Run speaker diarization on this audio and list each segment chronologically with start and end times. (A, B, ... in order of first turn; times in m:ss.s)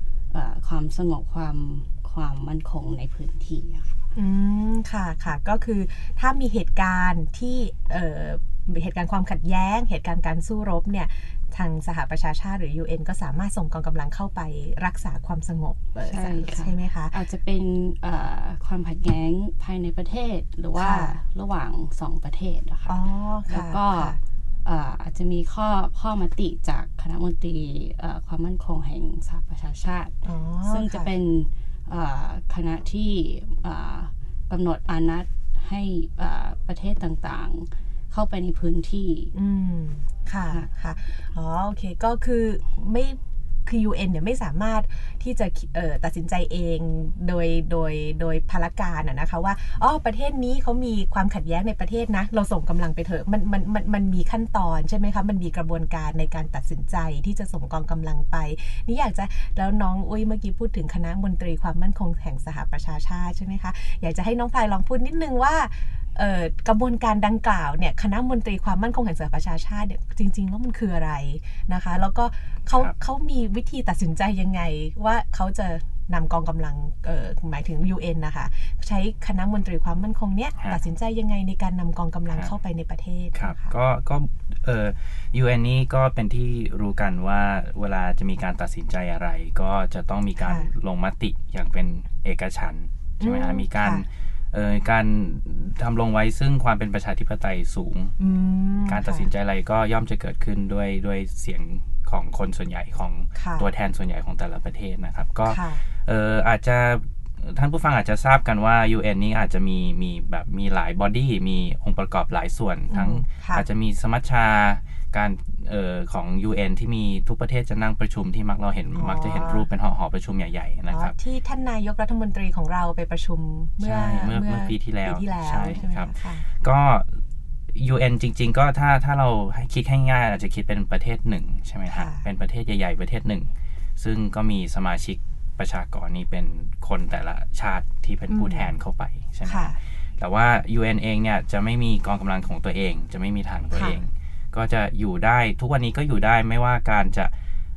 0:00.3-0:04.0 A
0:04.2-0:17.2 B
0:16.0-0:39.3 A
0:20.8-0:21.2 B
0:22.9-0:24.2 B
0:30.2-0:31.1 B
0:39.3-1:23.7 B
1:23.4-1:38.2 C
1:30.4-1:30.7 B
1:33.2-1:34.0 B
1:38.2-1:39.3 B
1:38.8-2:01.2 C
1:43.4-1:43.7 B
1:45.5-1:45.8 B
1:52.9-1:53.7 B
1:58.9-1:59.7 B
2:00.9-2:06.4 B
2:03.8-2:07.2 C
2:07.8-2:27.3 C
2:11.9-2:12.3 B
2:18.3-2:18.7 B
2:19.4-2:19.8 B
2:23.7-2:24.0 B